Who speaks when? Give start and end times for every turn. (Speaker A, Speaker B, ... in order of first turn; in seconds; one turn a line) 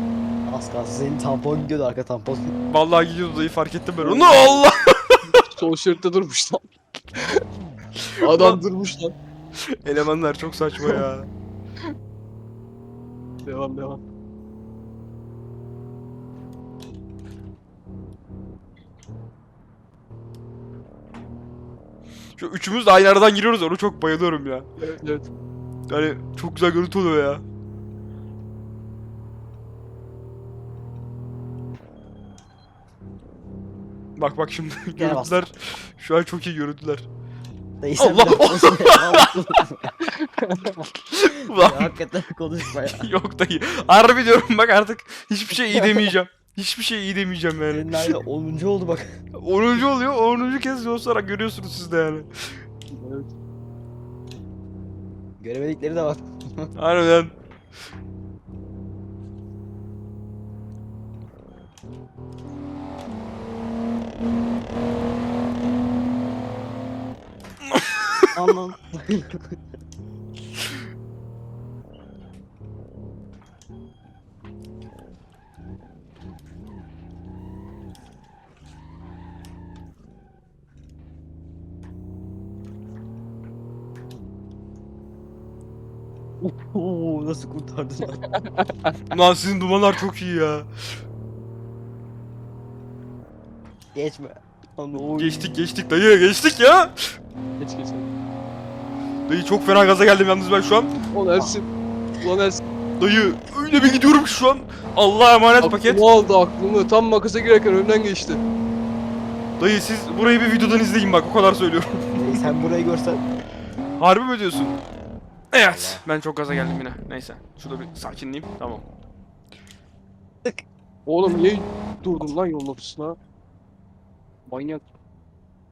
Speaker A: 0.5-2.5
Speaker B: 2.7-5.3
Speaker C: 4.0-4.7
Speaker C: 5.3-7.5
Speaker B: 8.0-8.6
Speaker C: 8.2-9.2
Speaker B: 9.8-11.3
Speaker C: 13.4-14.0
Speaker B: 22.4-24.7
Speaker C: 24.8-25.3
Speaker B: 25.9-27.4
Speaker B: 34.2-37.0
Speaker A: 35.0-35.4
Speaker A: 37.8-40.0
Speaker B: 38.0-39.6
Speaker C: 40.2-40.9
Speaker B: 40.9-41.9
Speaker A: 41.4-43.1
Speaker B: 42.8-48.1
Speaker A: 47.7-49.1
Speaker B: 49.4-52.3
Speaker C: 52.9-53.3
Speaker A: 55.4-56.7
Speaker B: 56.8-57.3
Speaker B: 67.6-68.3
Speaker A: 68.3-69.4
Speaker A: 86.4-88.2
Speaker C: 88.4-89.0
Speaker B: 89.1-90.8
Speaker A: 94.0-95.5
Speaker B: 95.2-97.2
Speaker C: 97.6-98.1
Speaker B: 99.3-100.9
Speaker C: 101.1-101.7
Speaker C: 102.2-102.6
Speaker B: 103.0-106.0
Speaker C: 105.6-108.4
Speaker B: 109.6-112.5
Speaker A: 112.1-113.2
Speaker B: 114.0-114.8
Speaker B: 115.5-118.8
Speaker A: 115.7-116.0
Speaker C: 121.1-123.2
Speaker C: 124.5-124.8